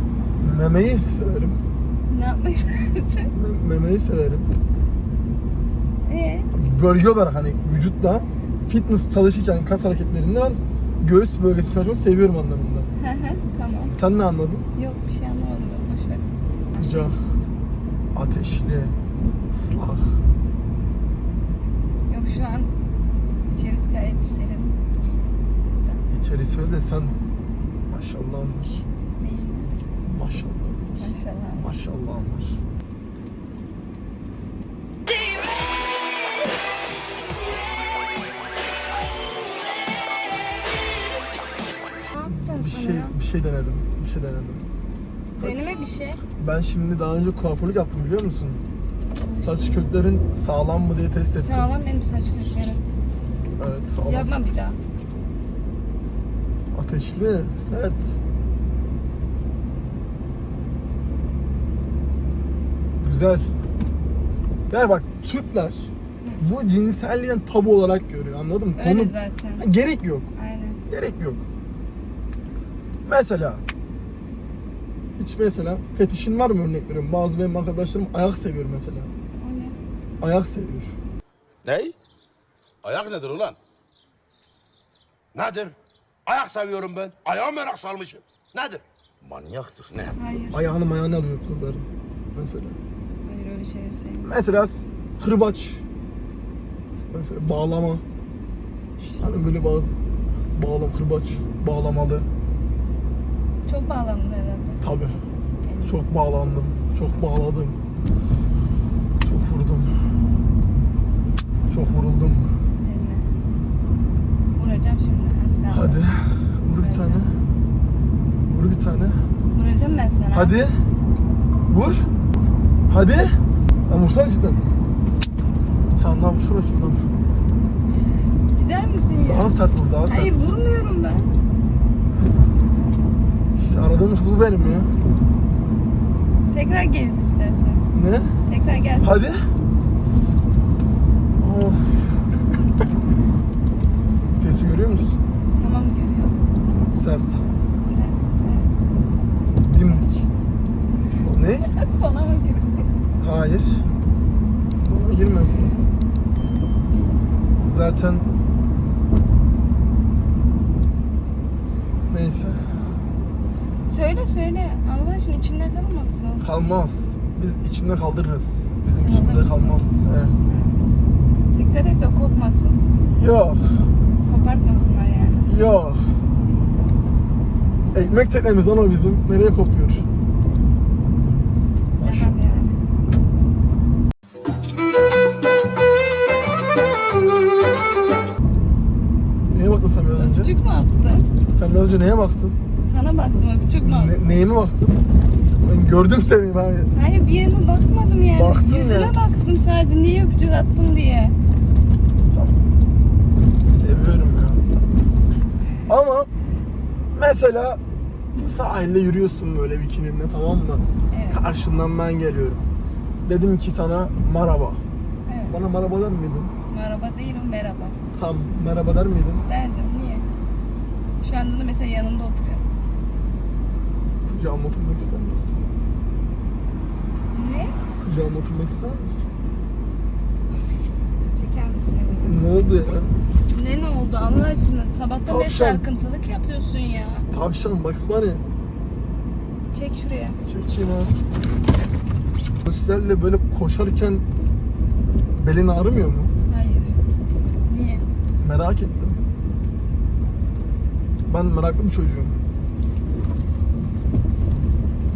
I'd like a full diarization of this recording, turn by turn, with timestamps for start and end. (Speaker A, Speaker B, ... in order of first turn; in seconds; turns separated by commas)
Speaker A: 0.4-1.6, Speaker B: 2.1-3.3, Speaker A: 3.3-4.5, Speaker B: 6.1-6.5, Speaker A: 6.5-12.9, Speaker B: 13.0-13.9, Speaker A: 13.9-14.7, Speaker B: 14.8-16.3, Speaker A: 16.8-17.3, Speaker B: 16.8-17.1, Speaker A: 18.1-18.9, Speaker A: 19.5-20.2, Speaker B: 22.1-22.7, Speaker B: 23.5-24.8, Speaker B: 25.7-26.1, Speaker A: 26.1-27.2, Speaker A: 27.9-28.9, Speaker B: 29.2-29.7, Speaker A: 30.0-32.6, Speaker B: 31.0-31.7, Speaker B: 42.1-43.1, Speaker A: 42.2-44.7, Speaker A: 45.3-48.6, Speaker B: 45.4-46.2, Speaker B: 49.1-50.0, Speaker A: 49.4-51.7, Speaker B: 51.3-52.8, Speaker A: 53.6-54.3, Speaker B: 54.0-54.8, Speaker A: 56.7-58.2, Speaker A: 63.0-63.5, Speaker A: 64.7-70.3, Speaker B: 68.8-69.7, Speaker B: 70.4-70.8, Speaker A: 70.9-71.5, Speaker A: 73.0-73.6, Speaker A: 75.2-79.1, Speaker B: 79.4-79.8, Speaker A: 80.2-81.0, Speaker C: 81.6-82.0, Speaker C: 82.8-83.6, Speaker C: 85.3-90.2, Speaker B: 90.2-90.7, Speaker A: 90.5-92.8, Speaker B: 93.3-94.4, Speaker A: 94.2-95.8, Speaker A: 97.1-98.0, Speaker A: 99.0-102.3, Speaker B: 103.7-104.8, Speaker A: 104.8-105.2, Speaker B: 105.6-106.0, Speaker A: 105.8-107.8, Speaker A: 109.2-109.9, Speaker A: 111.7-112.5, Speaker B: 112.8-113.3, Speaker B: 114.6-116.0, Speaker A: 115.7-117.4, Speaker B: 116.7-117.3, Speaker A: 118.5-119.2, Speaker B: 119.5-120.6, Speaker A: 120.3-120.8, Speaker A: 121.7-122.1, Speaker A: 122.9-123.3, Speaker A: 123.9-124.6, Speaker A: 126.0-127.1, Speaker B: 128.5-131.3, Speaker A: 129.2-130.5, Speaker A: 133.6-134.9, Speaker B: 136.5-137.8, Speaker A: 137.9-138.3, Speaker B: 138.5-139.2, Speaker A: 139.0-139.4, Speaker A: 141.4-142.4, Speaker A: 144.3-145.2, Speaker B: 145.6-146.4, Speaker A: 146.9-147.4, Speaker B: 147.8-148.7, Speaker A: 149.6-150.2, Speaker B: 149.8-150.1, Speaker A: 151.2-151.7, Speaker B: 151.6-152.9, Speaker A: 153.2-153.9, Speaker A: 154.8-155.7, Speaker B: 155.4-156.0, Speaker B: 156.9-157.3, Speaker A: 157.7-158.2, Speaker A: 162.1-162.9, Speaker B: 163.9-166.5, Speaker A: 166.4-170.4, Speaker B: 169.0-169.9, Speaker B: 170.5-170.8, Speaker B: 171.5-172.8, Speaker A: 173.1-173.9, Speaker B: 174.3-175.5, Speaker A: 175.4-176.2, Speaker B: 176.4-177.0, Speaker A: 177.9-180.1, Speaker B: 182.0-182.8, Speaker A: 182.0-182.3, Speaker A: 189.5-190.5, Speaker B: 190.2-191.3, Speaker A: 191.5-192.6, Speaker B: 192.8-194.2, Speaker A: 193.8-196.9, Speaker B: 196.9-201.4, Speaker A: 198.3-199.1, Speaker A: 202.3-202.6, Speaker A: 203.7-204.6, Speaker A: 205.9-206.3, Speaker A: 207.2-207.8, Speaker A: 208.4-212.7, Speaker B: 211.1-211.4, Speaker A: 213.2-214.8, Speaker B: 215.3-215.6, Speaker A: 215.5-216.5, Speaker B: 216.7-218.0, Speaker A: 218.1-219.4, Speaker B: 219.5-220.3, Speaker B: 221.2-222.7, Speaker A: 224.2-225.6, Speaker B: 227.3-227.8, Speaker A: 228.0-229.3, Speaker B: 231.2-232.6, Speaker A: 232.2-233.1, Speaker B: 233.5-237.2, Speaker A: 235.3-235.8, Speaker A: 237.3-238.4, Speaker B: 239.7-240.4, Speaker A: 240.4-241.2, Speaker A: 242.6-244.2, Speaker A: 245.4-246.3, Speaker B: 246.5-246.9, Speaker B: 247.7-248.1, Speaker A: 248.4-249.2, Speaker A: 251.3-252.3